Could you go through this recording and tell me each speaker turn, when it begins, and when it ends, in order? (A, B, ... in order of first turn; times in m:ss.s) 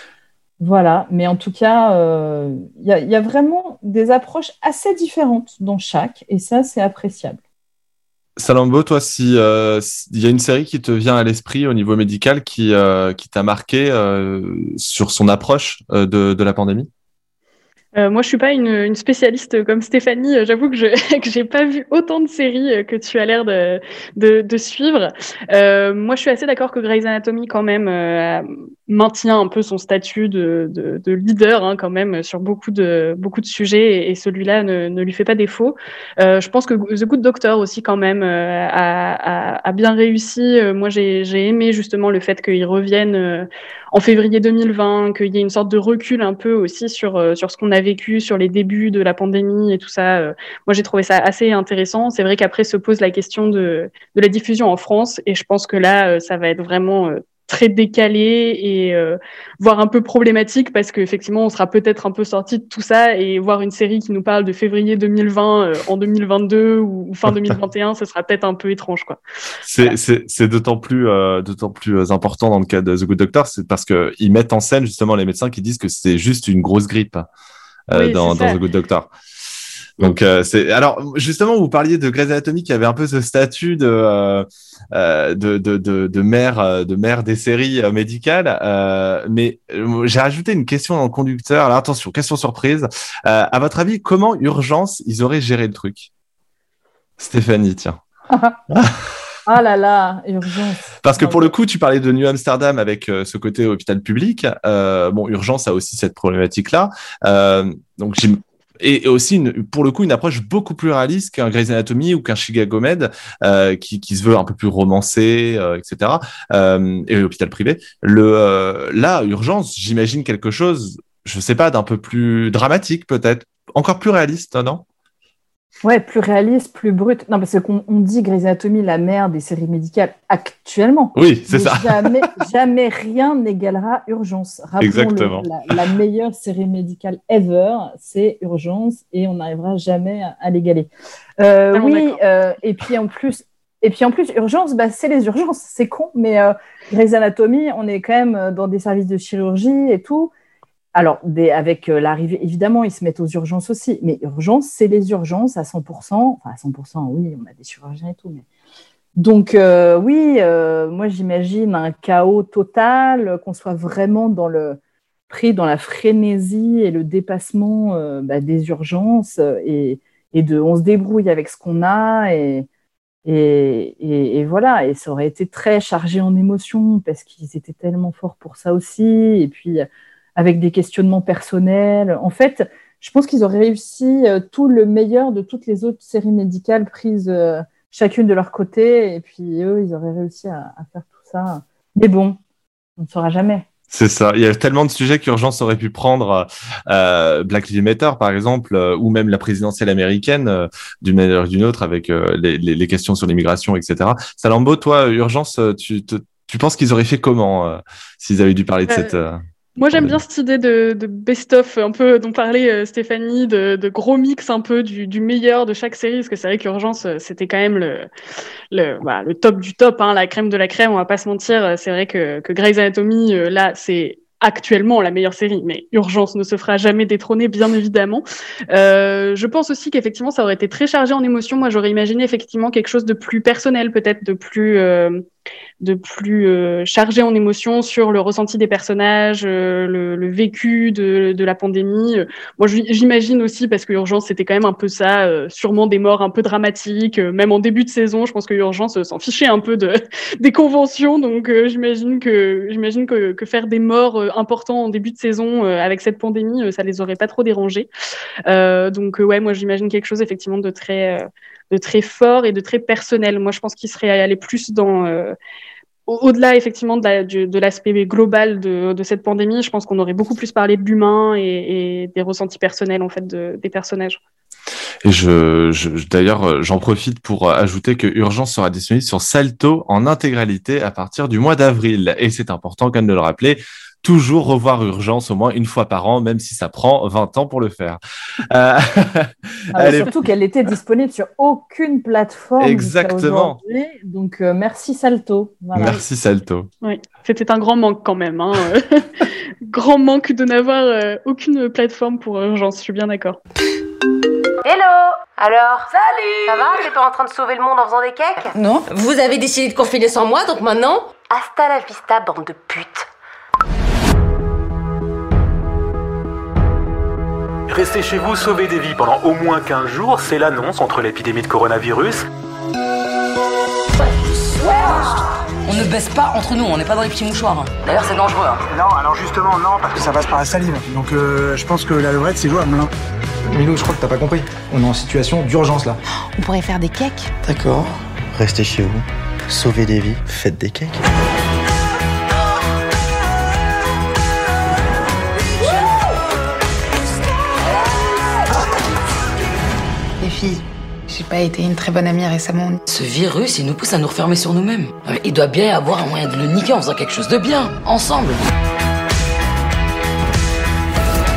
0:00.6-0:07.4 A
0:08.4-0:16.9 B
0:18.0-1:09.2 C
1:09.6-1:17.3 B
1:17.9-1:19.1 B
1:17.9-1:18.6 C
1:20.0-1:36.1 B
1:37.2-1:38.0 B
1:38.3-1:38.6 A
1:38.7-1:39.0 B
1:39.5-1:41.5 A
1:41.0-2:04.8 B
2:05.8-2:30.3 A
2:11.1-2:12.1 B
2:14.8-2:15.5 B
2:21.7-2:22.2 C
2:30.9-2:38.4 A
2:39.2-2:44.8 A
2:45.3-2:52.7 A
2:53.2-2:59.8 A
3:00.4-3:12.4 A
3:13.0-3:13.7 A
3:13.9-3:30.2 B
3:28.9-3:29.2 C
3:29.8-3:38.1 C
3:38.7-3:55.2 C
3:55.8-4:17.9 C
4:18.5-4:25.3 C
4:26.1-4:34.2 C
4:35.0-4:50.1 B
4:49.7-4:55.9 A
4:52.6-4:53.6 B
4:55.7-4:56.7 B
4:56.8-5:03.4 C
5:06.4-5:08.2 D
5:08.5-5:08.9 E
5:09.5-5:10.7 D
5:17.7-5:22.2 F
5:25.6-5:28.6 G
5:28.7-5:32.9 H
5:33.5-5:36.0 I
5:36.4-5:37.3 E
5:37.4-5:41.0 J
5:50.2-5:52.8 E
5:52.9-5:58.4 G